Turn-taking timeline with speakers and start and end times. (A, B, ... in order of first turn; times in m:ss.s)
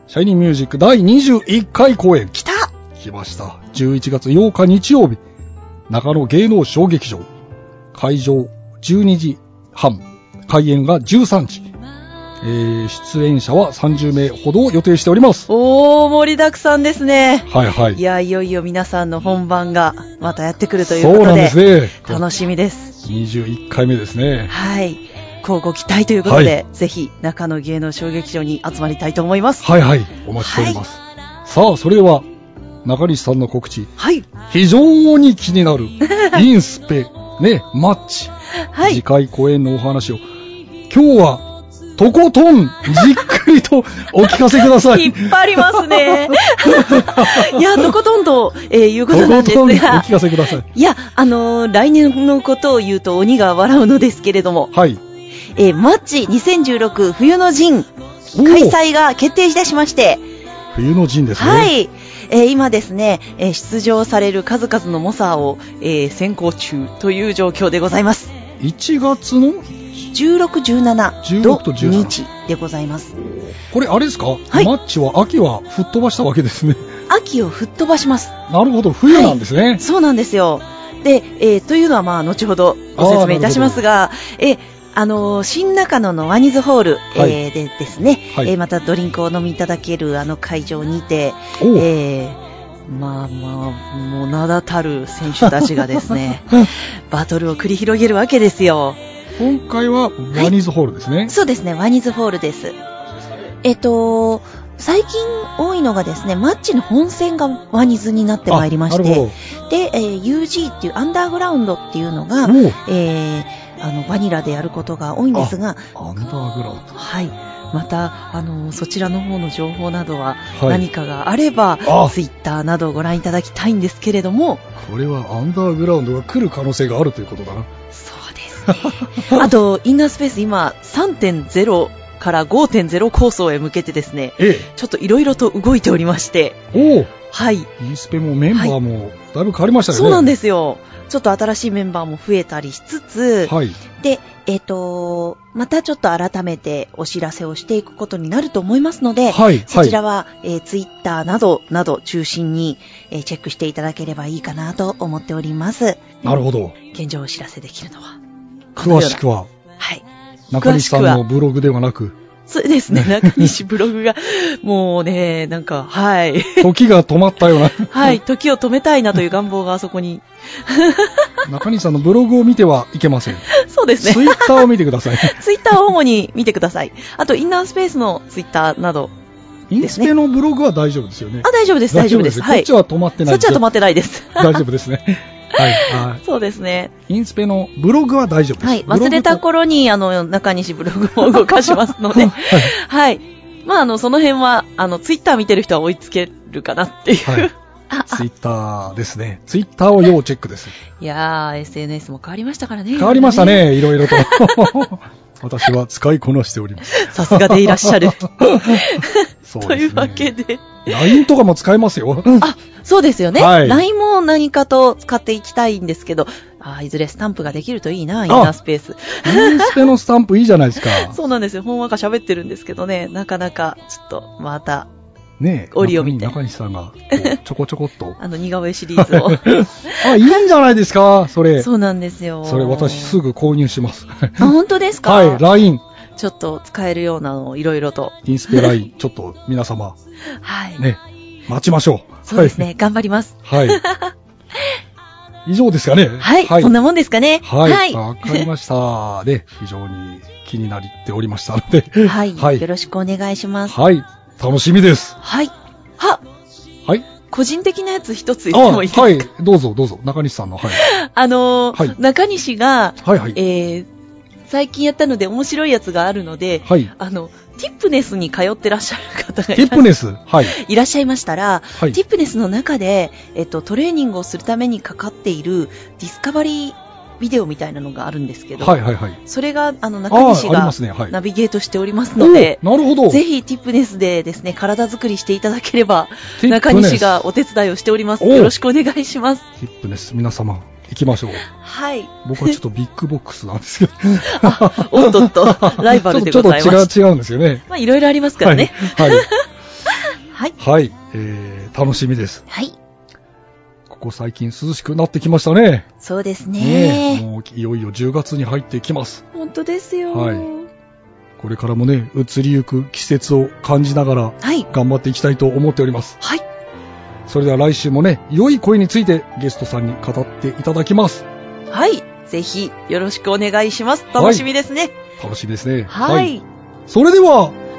0:00.1-0:02.4 A
0:02.4-0:02.7 B
0:03.0-0:05.2 A
0:05.9-0:07.3 A
0:07.9-0:11.7 A
0:12.4-0:15.5 A
0:15.5-0:22.9 B
0:17.5-0:18.0 A
0:20.8-0:22.2 A
0:23.0-0:24.5 A
0:24.5-0:29.7 B
0:26.3-0:26.6 A
0:29.6-0:32.3 A
0:30.4-0:30.8 B
0:32.8-0:40.2 A
0:34.0-0:34.3 B
0:38.7-0:39.0 B
0:40.9-0:47.9 A
0:44.4-0:54.7 B
0:49.1-0:50.6 A
0:54.7-0:55.0 A
0:55.6-0:57.9 B
0:58.3-0:58.8 A
0:58.4-1:00.2 B
1:00.7-1:01.7 A
1:01.4-1:08.4 B
1:08.6-1:09.7 A
1:10.1-1:13.1 B
1:11.2-1:12.2 A
1:13.3-1:16.8 A
1:17.1-1:18.4 B
1:18.5-1:19.8 A
1:19.1-1:39.0 B
1:23.0-1:23.8 A
1:31.6-1:31.9 A
1:39.4-1:41.3 A
1:41.3-1:42.8 B
1:43.6-1:55.9 B
1:48.5-1:49.4 A
1:52.4-1:52.8 A
1:55.3-1:56.9 A
1:56.9-2:04.6 B
2:00.5-2:00.8 A
2:01.8-2:02.1 A
2:04.8-2:07.7 A
2:07.9-2:16.6 B
2:08.7-2:09.5 A
2:14.4-2:14.7 A
2:16.7-2:17.1 A
2:17.3-2:17.7 B
2:17.8-2:20.3 A
2:19.9-2:36.1 B
2:23.4-2:23.8 A
2:29.3-2:30.0 A
2:36.2-2:36.8 A
2:36.9-2:38.2 B
2:38.8-2:39.2 B
2:38.8-2:39.5 A
2:39.8-2:40.0 B
2:40.5-2:42.2 A
2:40.6-2:41.2 B
2:42.5-2:46.7 B
2:42.9-2:43.5 A
2:46.6-2:48.2 A
2:47.6-2:51.3 B
2:51.5-2:53.5 A
2:53.5-2:54.7 B
2:54.0-2:55.4 A
2:55.2-2:59.1 B
2:59.7-3:03.6 A
2:59.8-3:00.1 B
3:01.4-3:02.7 B
3:03.2-3:04.6 B
3:04.4-3:06.2 A
3:05.6-3:06.9 B
3:07.1-3:09.4 A
3:08.6-3:18.2 B
3:12.1-3:12.8 A
3:17.2-3:17.5 A
3:18.1-3:20.8 A
3:21.0-3:24.7 B
3:23.0-3:28.9 A
3:26.9-3:31.2 B
3:29.5-3:30.3 A
3:30.9-3:32.5 A
3:32.4-3:39.8 B
3:33.3-3:33.8 A
3:38.3-3:38.6 A
3:39.2-3:41.2 A
3:40.8-3:44.9 B
3:45.4-3:48.2 A
3:45.7-3:46.4 B
3:48.2-3:50.1 B
3:49.0-3:51.7 A
3:51.6-3:53.2 B
3:52.4-3:54.5 A
3:54.4-3:55.4 B
3:55.0-3:55.8 A
3:56.2-3:58.8 B
3:58.2-4:00.0 A
4:00.4-4:00.8 B
4:00.8-4:02.7 A
4:02.3-4:04.1 B
4:03.5-4:03.8 A
4:05.5-4:06.7 A
4:06.2-4:08.5 B
4:07.4-4:12.6 A
4:12.0-4:13.8 B
4:13.7-4:15.2 A
4:15.2-4:16.2 B
4:17.3-4:19.2 B
4:18.5-4:20.8 A
4:20.7-4:23.9 B
4:23.0-4:23.4 A
4:24.5-4:49.4 B
4:26.7-4:26.9 A
4:29.6-4:30.6 A
4:38.6-4:39.2 A
4:40.1-4:41.2 A
4:42.2-4:43.2 A
4:46.4-4:47.2 A
4:48.2-4:48.5 A
4:49.6-4:51.5 A
4:51.6-4:52.6 B
4:52.2-4:57.6 A
4:54.3-4:56.9 B
4:57.7-4:59.3 B
4:58.4-4:59.3 A
5:00.6-5:02.4 A
5:02.5-5:02.8 B
5:03.9-5:05.9 A
5:06.0-5:07.2 B
5:06.6-5:09.2 A
5:09.4-5:10.7 B
5:10.1-5:10.5 A
5:11.4-5:16.2 A
5:14.4-5:14.7 B
5:17.3-5:21.2 A
5:21.7-5:25.0 B
5:24.2-5:24.5 A
5:25.2-5:26.4 A
5:25.9-5:26.4 B
5:26.9-5:27.6 A